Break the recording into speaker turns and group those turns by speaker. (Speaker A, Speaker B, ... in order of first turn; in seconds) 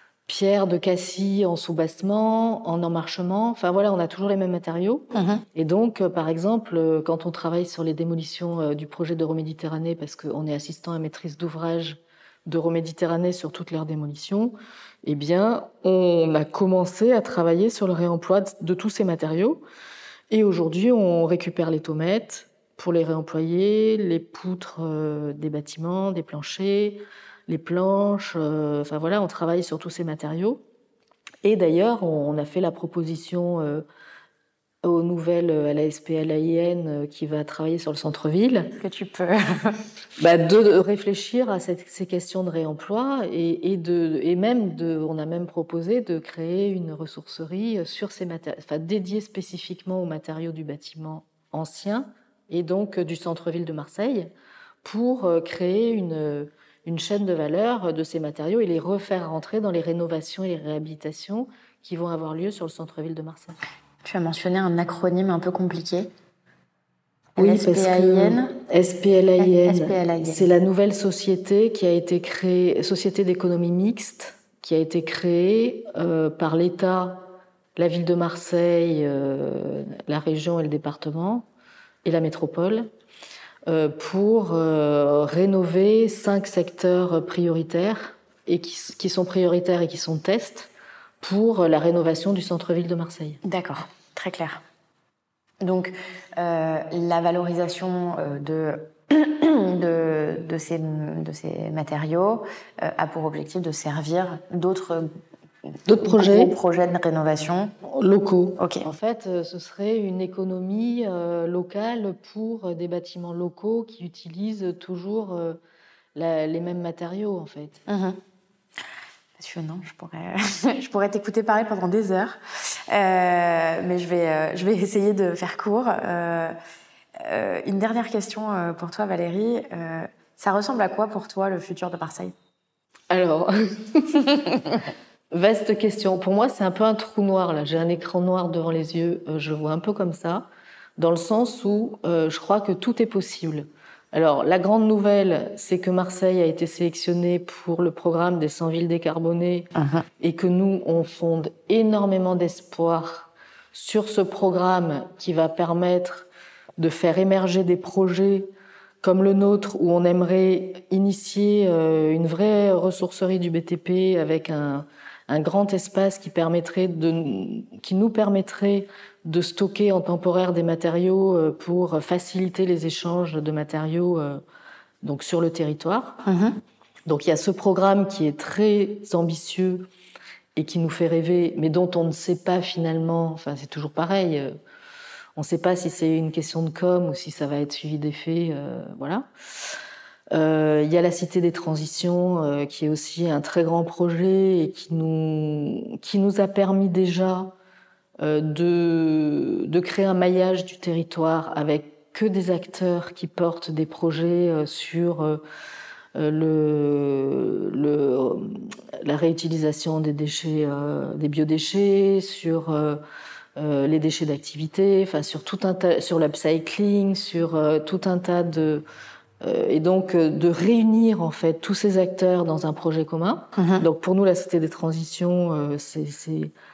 Speaker A: 0.2-19.6, 20.3-30.6, 31.4-33.9, 34.8-38.7, 40.2-54.3, 54.8-63.6, 67.4-81.5, 82.0-82.9, 83.7-90.7, 91.2-93.4, 105.9-106.5, 107.8-115.6, 116.1-117.8, 133.1-134.5, 135.3-156.3, 156.8-158.5, 159.0-174.4, 175.0-176.2, 177.1-179.9, 180.6-184.5, 185.3-189.3, 190.3-197.5, 198.2-205.4, 206.1-213.0, 213.6-218.8, 219.4-226.5
Speaker B: 5.1-5.4, 38.8-39.8, 64.0-66.1, 67.3-68.5, 69.4-70.5, 93.4-94.6, 95.6-105.1, 105.9-107.7, 108.6-108.9, 117.9-118.2, 119.4-126.6, 127.2-132.3, 149.8-150.0, 176.2-176.6, 223.6-223.8